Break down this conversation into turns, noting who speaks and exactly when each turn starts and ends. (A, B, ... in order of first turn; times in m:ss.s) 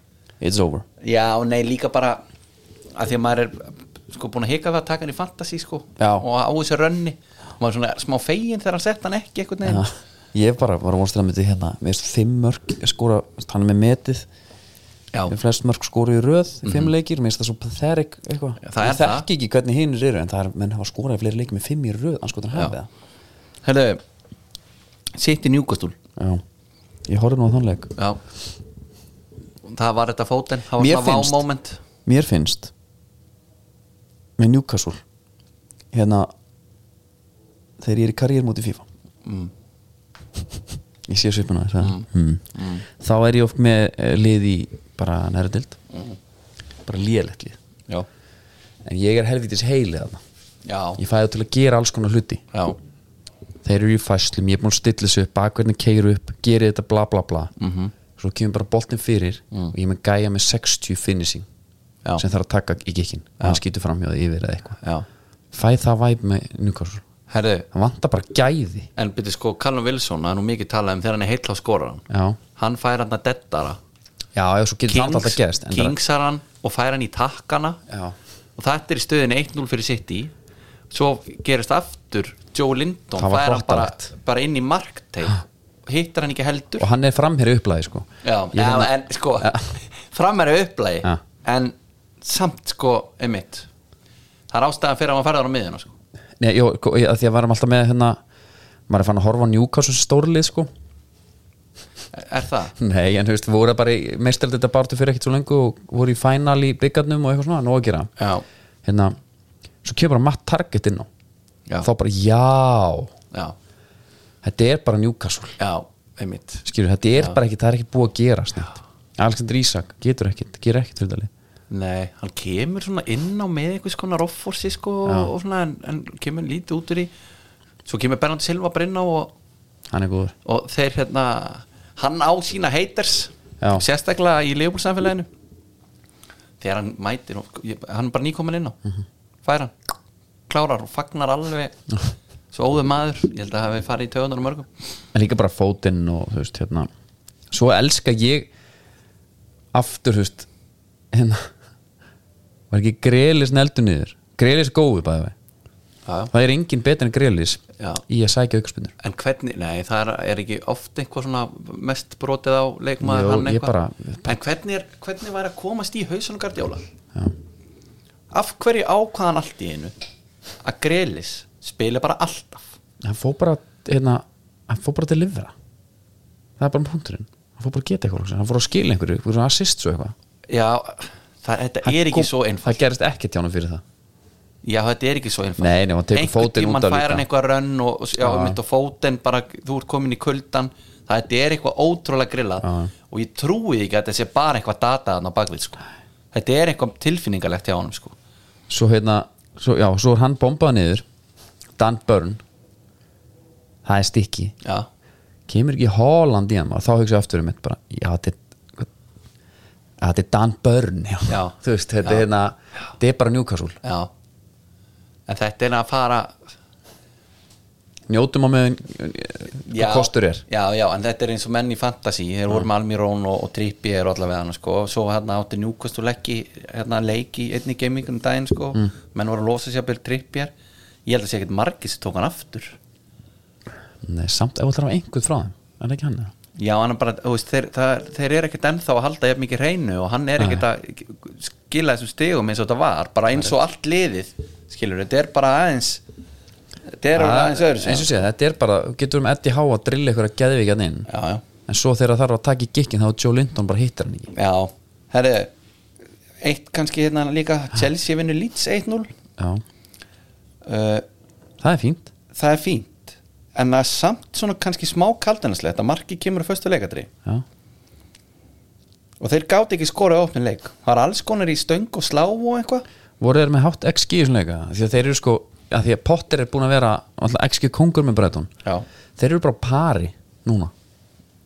0:00.4-0:00.8 A
0:01.0-0:02.2 B
0:03.0-0:09.9 B
0:06.0-0:06.2 A
0:09.6-0:14.3 A
0:15.3-0:22.9 A
0:16.6-0:16.9 B
0:18.6-0:19.3 B
0:23.6-0:24.0 B
0:25.2-0:26.0 B
0:26.2-0:26.4 A
0:27.0-0:27.9 A
0:29.6-0:31.8 B
0:30.8-0:31.4 A
0:32.0-0:32.7 A
0:34.4-0:35.0 A
0:35.9-0:36.3 A
0:37.8-0:38.8 A
0:39.2-0:39.5 B
0:41.1-0:45.8 A
0:41.8-0:42.8 B
0:46.8-0:47.6 A
0:48.8-0:50.2 A
0:50.6-0:51.0 B
0:51.0-0:52.4 A
0:53.6-0:57.5 A
0:57.6-0:57.9 B
0:58.2-1:01.4 A
1:02.2-1:04.8 A
1:05.5-1:07.0 A
1:07.3-1:07.7 B
1:07.7-1:08.9 A
1:09.0-1:12.0 B
1:12.1-1:12.4 A
1:12.6-1:13.8 B
1:14.3-1:16.0 A
1:14.9-1:17.8 B
1:17.9-1:18.1 A
1:18.6-1:20.3 B
1:20.9-1:26.9 B
1:23.2-1:24.1 A
1:26.8-1:29.6 A
1:28.2-1:33.7 B
1:34.5-1:35.9 B
1:36.4-1:38.2 A
1:38.9-1:40.7 A
1:42.1-1:42.7 B
1:42.8-1:48.1 A
1:48.2-1:48.4 B
1:48.8-1:49.1 A
1:49.8-1:51.1 A
1:51.8-1:53.1 A
1:54.4-1:55.6 A
1:55.6-1:56.6 B
1:56.6-2:01.3 A
2:01.7-2:07.1 B
2:05.0-2:05.3 A
2:07.9-2:09.3 B
2:09.9-2:10.3 A
2:10.4-2:15.3 B
2:16.6-2:18.8 B
2:19.4-2:19.7 B
2:20.5-2:21.8 B
2:22.5-2:24.8 B
2:25.1-2:26.9 A
2:27.5-2:28.5 A
2:29.7-2:30.5 A
2:31.1-2:31.5 A
2:32.7-2:35.3 A
2:36.0-2:36.3 B
2:36.3-2:38.9 A
2:37.8-2:38.0 B
2:39.0-2:43.7 B
2:43.0-2:44.3 A
2:44.2-2:46.8 B
2:48.3-2:49.9 B
2:50.6-2:52.7 B
2:53.0-2:55.5 A
2:56.6-3:00.1 A
3:00.5-3:02.8 B
3:01.8-3:03.8 A
3:04.6-3:18.1 B
3:05.6-3:07.2 A
3:08.2-3:08.6 A
3:12.6-3:12.9 A
3:18.7-3:21.0 A
3:21.8-3:22.4 A
3:23.8-3:24.6 A
3:25.5-3:28.9 A
3:30.0-3:33.8 A
3:31.3-3:32.3 B
3:33.8-3:34.1 B
3:35.3-3:36.3 B
3:38.1-3:40.4 A
3:39.7-3:50.5 B
3:51.0-3:52.8 B
3:54.0-3:56.3 A
3:56.6-4:06.0 B
4:00.4-4:00.6 A
4:07.0-4:08.2 B
4:07.1-4:11.1 A
4:11.1-4:11.4 B
4:11.6-4:14.3 A
4:14.3-4:15.5 B
4:16.4-4:19.1 B
4:19.4-4:19.6 A
4:20.6-4:21.0 B
4:21.6-4:22.1 A
4:22.3-4:27.1 B
4:29.2-4:32.8 B
4:33.2-4:38.5 A
4:39.2-4:40.7 A